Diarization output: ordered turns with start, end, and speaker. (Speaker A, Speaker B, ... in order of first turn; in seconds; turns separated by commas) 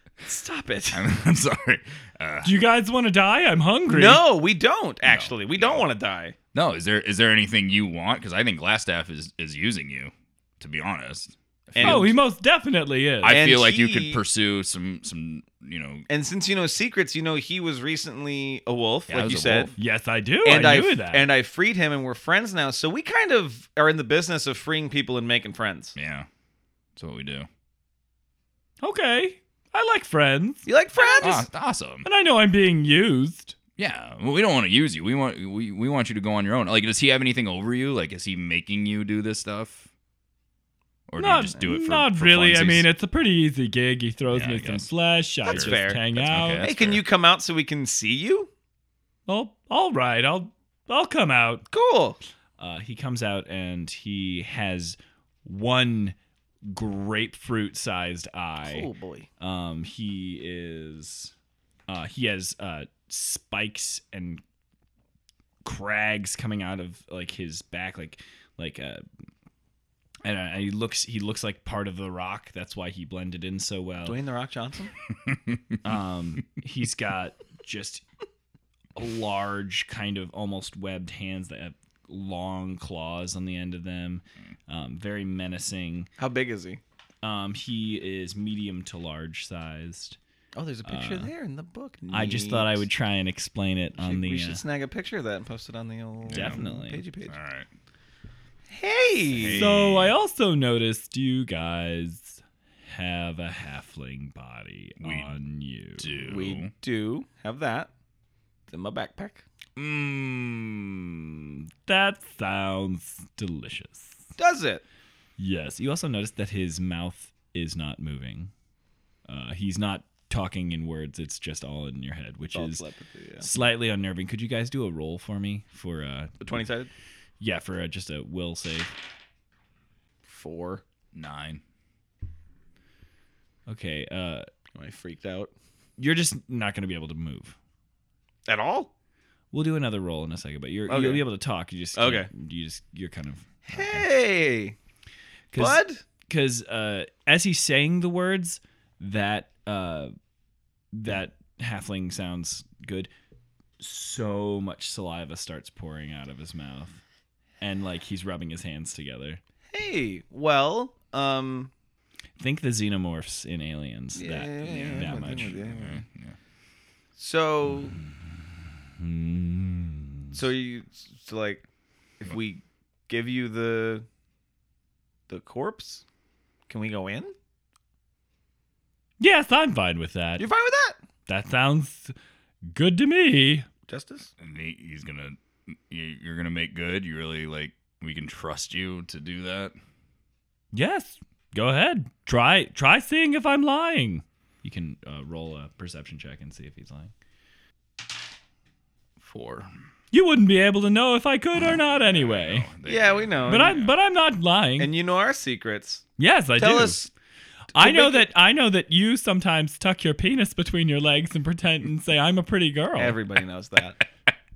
Speaker A: 0.2-1.0, Speaker B: 0.9-2.5, Speaker C: 2.4-4.2, Speaker A: 3.9-6.3, Speaker B: 5.0-5.8, Speaker B: 6.5-12.2, Speaker A: 11.7-12.1, Speaker C: 11.8-13.4, Speaker B: 13.2-16.1, Speaker A: 13.3-14.2, Speaker A: 16.1-19.7, Speaker B: 19.1-19.7, Speaker C: 19.8-21.3, Speaker A: 20.4-25.9, Speaker B: 25.9-26.3, Speaker B: 26.9-27.5, Speaker C: 28.8-31.2, Speaker A: 30.6-31.5, Speaker B: 31.2-32.0, Speaker C: 32.0-33.5, Speaker B: 33.8-39.9, Speaker B: 41.1-42.9, Speaker C: 41.2-46.6, Speaker B: 44.3-44.9, Speaker A: 45.4-46.0, Speaker B: 45.5-47.0, Speaker A: 46.6-48.5, Speaker C: 49.3-51.6, Speaker A: 51.7-52.2, Speaker C: 52.6-56.1, Speaker C: 56.7-58.9, Speaker A: 58.6-59.3, Speaker C: 59.4-61.3, Speaker C: 61.9-64.4, Speaker C: 65.6-69.0, Speaker C: 70.2-74.2, Speaker A: 74.0-74.9, Speaker B: 75.1-75.8, Speaker C: 75.8-78.0, Speaker C: 79.0-86.1, Speaker A: 86.2-86.8, Speaker C: 87.2-90.2, Speaker A: 90.5-92.8, Speaker C: 90.8-91.3, Speaker C: 92.1-94.6, Speaker A: 94.0-97.3, Speaker B: 96.3-96.6, Speaker C: 96.3-97.0, Speaker B: 97.3-97.7, Speaker A: 98.7-99.7, Speaker B: 99.3-100.1, Speaker C: 99.5-102.4, Speaker C: 102.9-106.1, Speaker B: 105.0-105.3, Speaker B: 106.0-106.7, Speaker A: 106.2-107.9, Speaker A: 108.7-109.4, Speaker B: 109.8-110.0, Speaker C: 111.8-114.2, Speaker A: 114.4-114.8, Speaker C: 115.4-118.5, Speaker C: 119.3-122.8, Speaker A: 122.5-123.5, Speaker C: 123.4-126.3, Speaker A: 126.4-126.9, Speaker C: 127.4-128.9, Speaker A: 130.3-130.8, Speaker B: 131.1-131.6, Speaker C: 133.7-134.5, Speaker A: 134.7-135.5, Speaker C: 136.0-137.5, Speaker A: 138.5-138.9, Speaker C: 139.5-144.1, Speaker A: 140.9-141.2, Speaker A: 141.9-142.3, Speaker A: 143.7-144.8, Speaker C: 145.5-150.1, Speaker A: 145.5-146.0, Speaker C: 150.9-153.1, Speaker C: 153.8-157.0, Speaker C: 157.6-159.4, Speaker A: 159.7-161.7, Speaker C: 162.4-165.6, Speaker A: 164.1-166.0, Speaker B: 165.6-166.4, Speaker A: 167.2-168.0, Speaker A: 170.3-171.6, Speaker A: 172.2-174.1, Speaker A: 175.3-176.0, Speaker A: 176.7-177.3, Speaker C: 179.2-180.4, Speaker A: 180.4-181.0, Speaker C: 181.3-182.1, Speaker C: 182.7-183.7, Speaker A: 183.9-184.3, Speaker B: 184.4-189.7, Speaker C: 190.7-197.1, Speaker B: 199.2-199.7, Speaker C: 200.1-202.7, Speaker B: 201.6-203.9, Speaker A: 202.8-203.8, Speaker C: 203.5-204.9, Speaker A: 204.8-206.0, Speaker C: 206.2-207.0, Speaker A: 206.6-207.1, Speaker A: 207.7-208.3, Speaker C: 207.7-213.2, Speaker A: 212.9-214.0